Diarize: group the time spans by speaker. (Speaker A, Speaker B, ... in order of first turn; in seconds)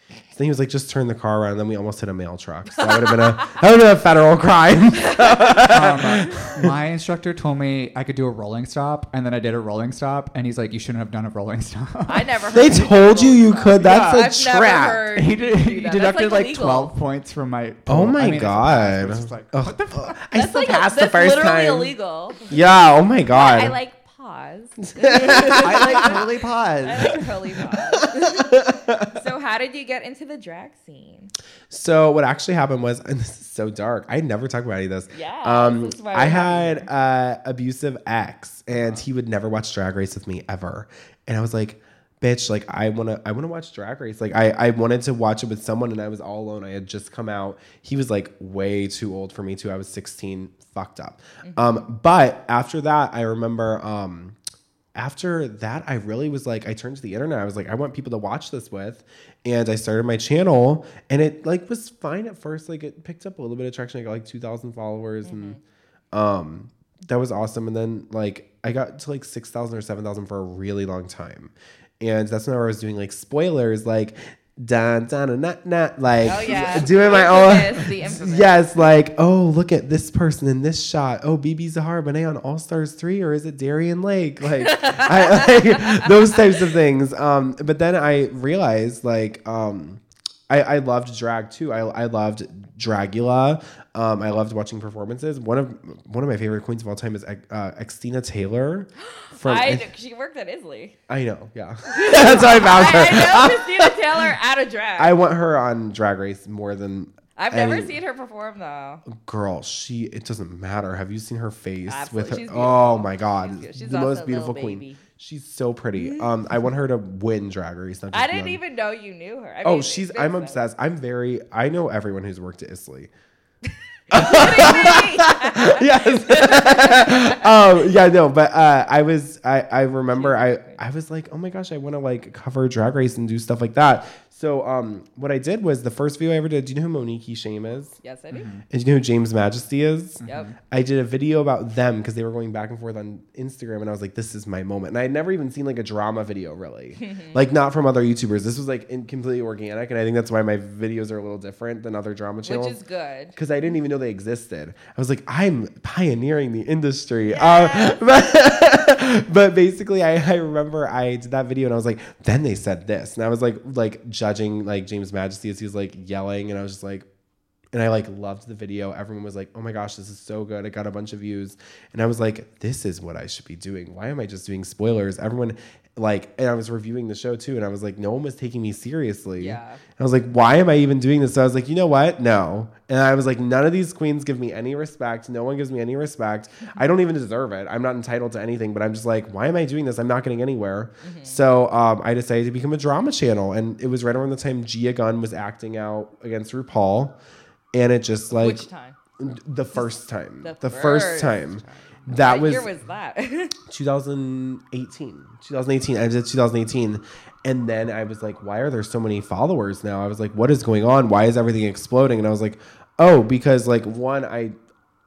Speaker A: 0.3-6.7, 12.5-15.1, 17.9-21.9, 22.5-23.8, 25.0-26.2, 27.7-29.2, 31.7-54.4, 55.0-65.6, 66.1-99.9, 101.1-104.3, 105.0-108.0, 109.1-118.6, 119.6-123.1, 124.1-138.0, 138.7-152.8, 153.3-167.1, 167.7-197.2, 197.7-198.7, 199.2-202.7, 203.7-214.6
Speaker B: 2.9-3.2, 5.0-5.7, 12.1-16.9, 20.3-22.5, 23.3-31.3, 35.1-36.9, 51.4-51.9, 65.2-65.6, 76.2-78.6, 84.6-86.6, 99.2-101.0, 101.9-105.2, 107.4-109.1, 111.9-115.0, 116.0-116.3, 118.1-120.6, 124.1-127.4, 130.1-130.8, 138.0-138.5, 140.2-140.5, 147.0-147.4, 152.4-153.4, 157.3-158.0, 179.4-179.8, 191.0-191.4, 198.3-199.0, 200.4-203.6
Speaker C: 5.7-12.3, 13.8-14.3, 15.1-20.2, 25.5-27.2, 38.7-39.0, 138.3-138.6, 140.2-140.5